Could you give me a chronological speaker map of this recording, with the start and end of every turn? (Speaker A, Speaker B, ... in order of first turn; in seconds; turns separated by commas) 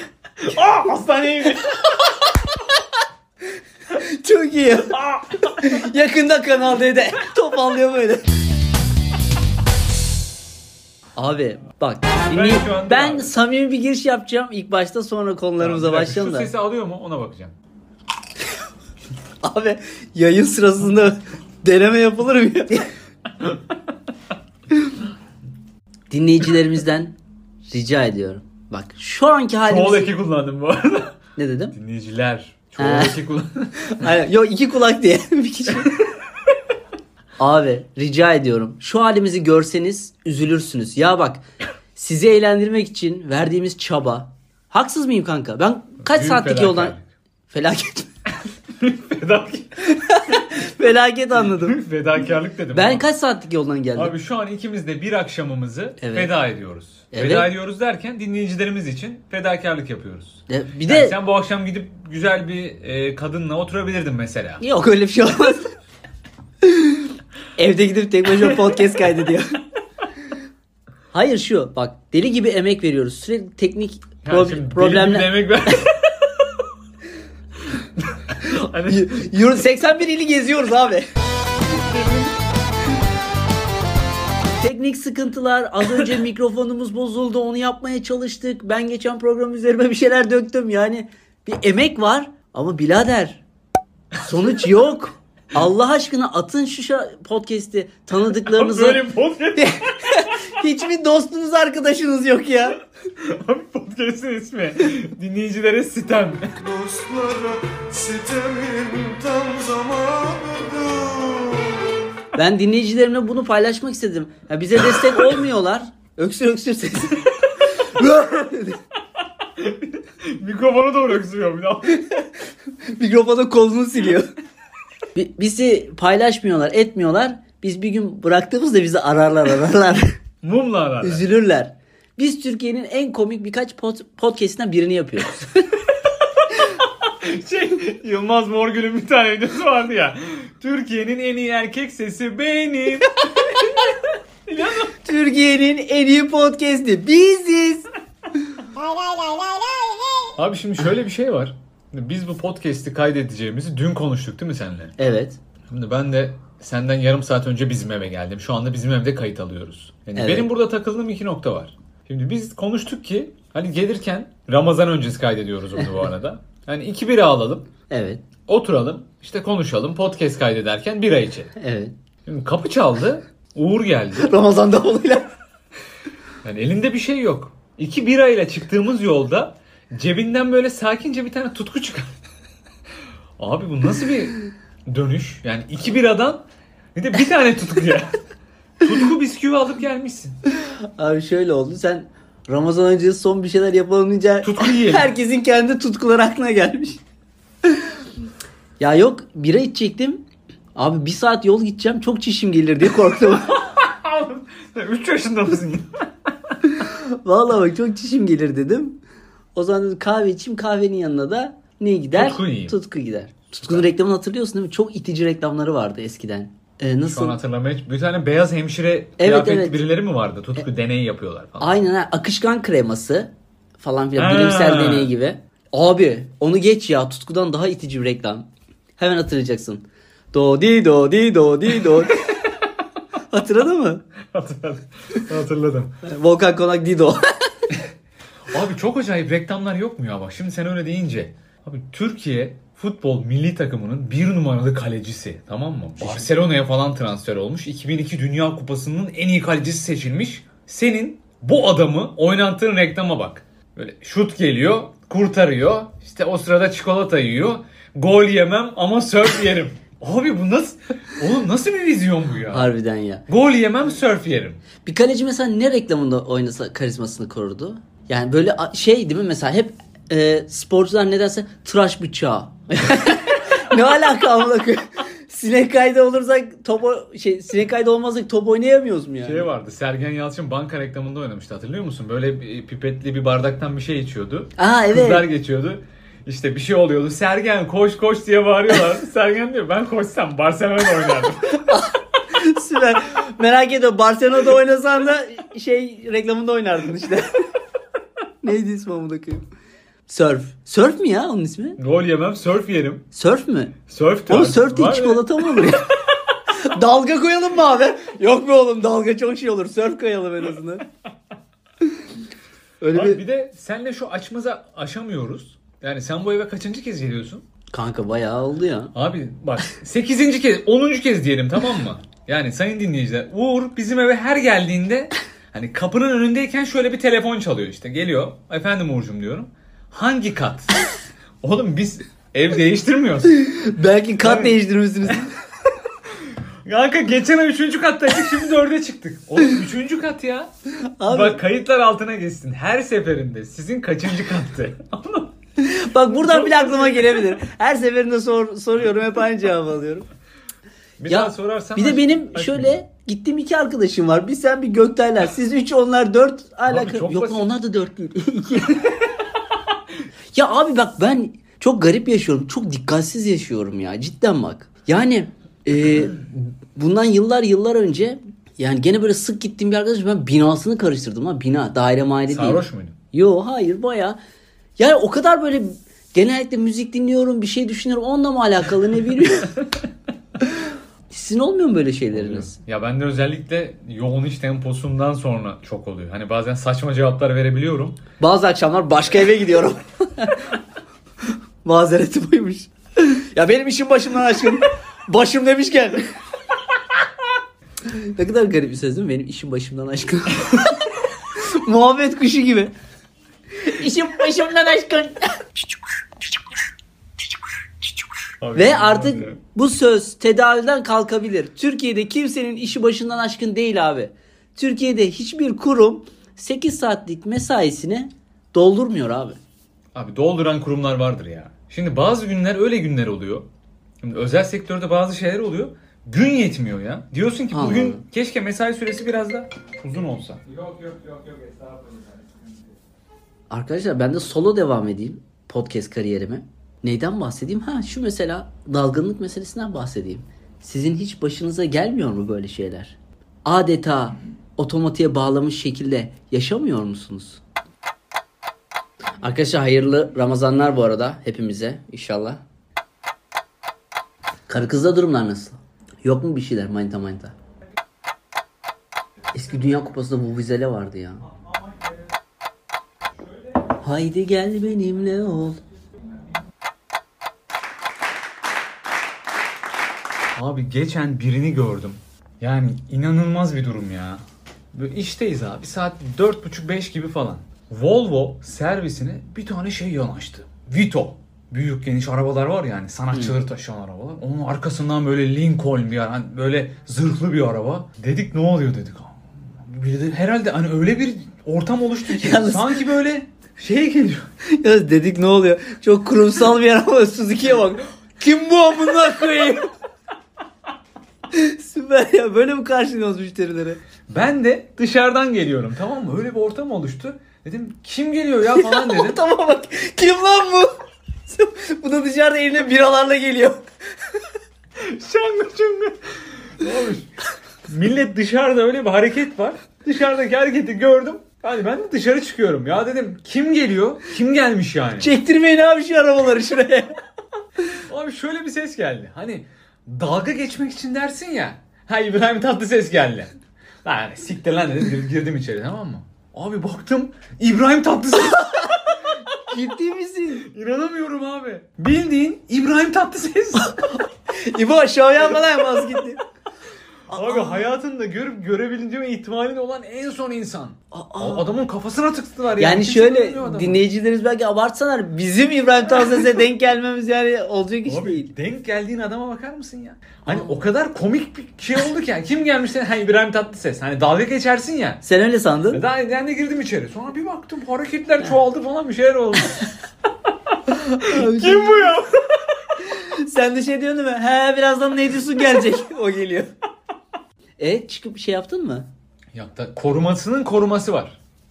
Speaker A: 0.4-2.0, Speaker B: 3.9-5.0, Speaker A: 4.9-5.8, Speaker B: 5.6-8.2, Speaker B: 11.2-16.5, Speaker A: 12.2-13.3, Speaker A: 15.6-17.6, Speaker B: 19.4-22.9, Speaker B: 26.1-27.2, Speaker B: 27.7-30.2, Speaker A: 29.7-31.2, Speaker B: 31.4-31.8, Speaker A: 31.7-34.1, Speaker B: 32.8-33.2, Speaker B: 33.9-35.9, Speaker B: 37.4-41.4, Speaker B: 42.0-47.0, Speaker A: 46.0-47.1, Speaker B: 47.5-48.1, Speaker A: 48.8-50.0, Speaker B: 50.1-51.8, Speaker A: 51.4-53.0, Speaker B: 52.7-54.1, Speaker A: 54.0-64.6, Speaker B: 56.0-56.3, Speaker B: 57.1-57.5, Speaker B: 60.5-61.2, Speaker B: 64.6-65.7, Speaker B: 66.6-69.6, Speaker B: 71.1-75.7, Speaker A: 74.2-76.6, Speaker A: 78.2-79.5, Speaker B: 78.9-81.1, Speaker A: 81.7-82.3, Speaker B: 84.6-93.4, Speaker B: 94.2-99.1, Speaker A: 98.3-100.5, Speaker B: 99.6-102.8, Speaker A: 103.2-107.0, Speaker C: 106.7-110.8, Speaker A: 108.2-111.7, Speaker B: 112.3-118.8, Speaker A: 119.4-122.0, Speaker B: 122.0-122.2, Speaker B: 123.0-124.3, Speaker B: 125.2-130.2, Speaker A: 130.4-131.3, Speaker B: 131.0-135.7, Speaker A: 136.5-144.9, Speaker B: 145.0-147.9, Speaker A: 150.4-154.9, Speaker B: 155.0-155.4, Speaker A: 155.7-167.7, Speaker B: 160.2-160.5, Speaker B: 167.9-168.2, Speaker A: 168.5-171.6, Speaker B: 171.6-171.9, Speaker A: 172.3-174.3, Speaker B: 174.2-175.3, Speaker A: 176.4-182.1, Speaker A: 183.4-186.4, Speaker A: 186.9-188.2, Speaker A: 188.8-190.4, Speaker B: 191.0-197.0, Speaker A: 194.4-195.1, Speaker B: 198.8-200.2, Speaker B: 200.8-203.6, Speaker A: 203.2-205.9, Speaker B: 206.7-209.0, Speaker B: 209.6-217.4, Speaker A: 212.1-212.8, Speaker A: 213.6-213.9, Speaker A: 217.1-221.8, Speaker B: 219.2-219.8, Speaker B: 221.6-228.5, Speaker A: 224.2-225.1, Speaker B: 229.0-232.4, Speaker B: 233.3-234.0, Speaker A: 234.3-235.9, Speaker B: 236.0-237.5, Speaker A: 238.5-262.7, Speaker B: 246.0-246.3, Speaker B: 262.5-263.2, Speaker A: 263.3-264.6, Speaker B: 264.9-279.5, Speaker A: 279.2-291.7, Speaker B: 284.6-285.3, Speaker B: 291.5-297.5, Speaker B: 298.4-299.4, Speaker B: 300.1-301.8, Speaker A: 301.8-303.1, Speaker B: 303.1-305.9, Speaker A: 303.9-305.8, Speaker B: 306.6-310.9, Speaker B: 312.8-313.2, Speaker A: 312.9-317.4, Speaker B: 317.7-318.9, Speaker A: 318.9-330.7, Speaker A: 331.4-333.5, Speaker B: 333.4-335.3, Speaker A: 334.2-334.6, Speaker A: 336.3-340.5, Speaker B: 341.0-341.4, Speaker A: 341.1-345.3, Speaker B: 345.6-350.1, Speaker A: 346.2-347.3, Speaker A: 351.0-352.8, Speaker B: 351.1-359.1, Speaker A: 356.7-357.5, Speaker B: 360.3-374.2, Speaker A: 372.3-373.0, Speaker B: 374.8-379.6, Speaker B: 381.1-382.6, Speaker A: 382.1-388.0, Speaker B: 388.2-390.6, Speaker B: 391.6-396.1, Speaker B: 397.9-402.7, Speaker B: 403.6-405.5, Speaker A: 408.4-409.4, Speaker B: 408.6-419.4, Speaker A: 419.9-423.5, Speaker A: 424.0-431.7, Speaker B: 427.5-428.0, Speaker B: 433.5-447.4, Speaker B: 449.2-452.4, Speaker B: 454.5-457.4, Speaker B: 459.3-461.2, Speaker B: 463.8-465.6, Speaker A: 470.4-474.2, Speaker A: 474.7-494.3, Speaker B: 492.1-492.9, Speaker B: 494.6-499.6, Speaker B: 501.3-503.8, Speaker A: 504.1-509.2, Speaker B: 508.5-510.7, Speaker B: 511.3-513.6, Speaker A: 514.8-517.1, Speaker A: 517.7-525.1, Speaker B: 525.0-527.0, Speaker A: 527.9-533.3, Speaker A: 533.8-539.2, Speaker B: 539.5-540.5, Speaker A: 540.4-543.9, Speaker B: 544.4-546.2, Speaker A: 547.1-553.8, Speaker B: 547.1-547.7, Speaker B: 550.9-551.5, Speaker B: 552.6-558.3, Speaker A: 557.9-565.0, Speaker B: 560.3-560.6, Speaker B: 565.0-565.8, Speaker A: 565.7-569.7, Speaker B: 570.8-571.9, Speaker A: 571.0-572.6, Speaker B: 572.8-576.5, Speaker B: 577.6-578.9, Speaker A: 579.3-581.2